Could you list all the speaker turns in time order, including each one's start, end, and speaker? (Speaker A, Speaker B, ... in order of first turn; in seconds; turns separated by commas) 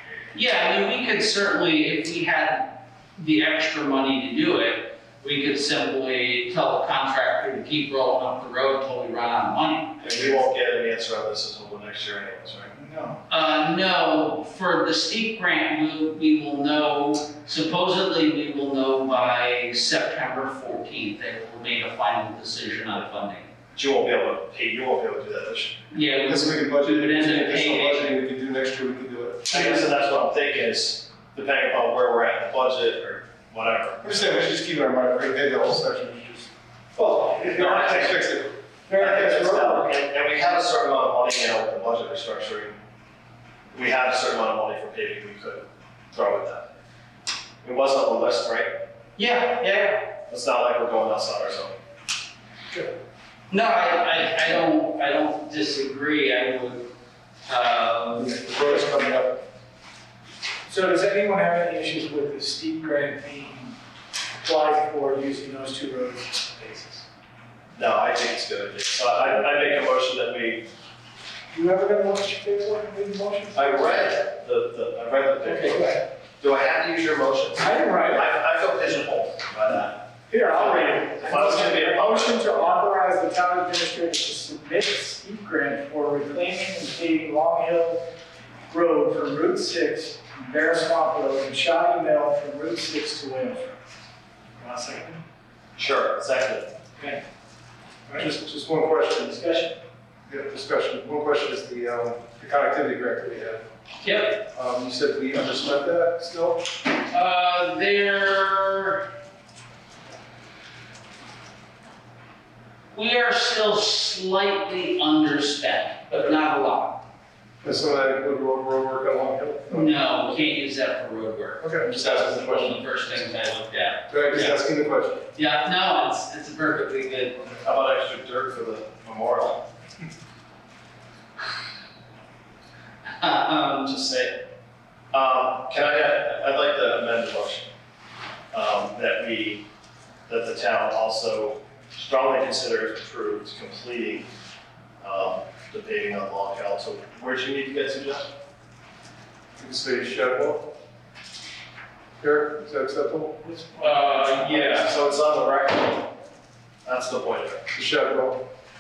Speaker A: 0.3-10.2, Speaker B: 10.0-12.7, Speaker C: 12.7-13.2, Speaker A: 13.3-23.5, Speaker B: 23.8-25.8, Speaker A: 25.9-28.1, Speaker D: 26.2-29.6, Speaker B: 29.5-34.1, Speaker D: 34.0-36.5, Speaker C: 36.9-38.3, Speaker D: 37.5-38.5, Speaker C: 38.9-39.9, Speaker B: 39.0-42.8, Speaker B: 43.7-46.7, Speaker B: 47.6-48.7, Speaker A: 49.2-50.1, Speaker B: 50.3-51.8, Speaker A: 53.5-56.9, Speaker A: 57.5-58.5, Speaker D: 58.2-59.4, Speaker C: 60.7-63.8, Speaker C: 64.4-67.0, Speaker B: 67.8-70.6, Speaker C: 71.5-74.2, Speaker B: 73.5-82.8, Speaker C: 75.4-76.0, Speaker C: 77.6-78.3, Speaker C: 80.3-88.0, Speaker C: 88.7-93.8, Speaker C: 94.6-95.2, Speaker B: 95.8-96.7, Speaker C: 97.0-97.2, Speaker D: 98.1-99.4, Speaker C: 99.2-99.7, Speaker D: 100.3-103.6, Speaker A: 104.0-104.4, Speaker D: 104.5-106.6, Speaker A: 107.1-109.0, Speaker A: 112.9-117.0, Speaker D: 117.6-119.9, Speaker A: 119.7-124.7, Speaker D: 121.6-122.8, Speaker D: 124.1-125.2, Speaker A: 125.3-127.4, Speaker B: 127.6-129.6, Speaker A: 133.2-133.9, Speaker B: 133.8-134.3, Speaker B: 135.1-137.7, Speaker B: 138.5-139.6, Speaker B: 140.3-144.3, Speaker B: 145.0-148.3, Speaker D: 149.6-150.6, Speaker D: 152.2-153.4, Speaker C: 153.4-154.8, Speaker A: 153.8-154.9, Speaker B: 154.5-156.0, Speaker B: 156.8-157.7, Speaker D: 157.7-158.4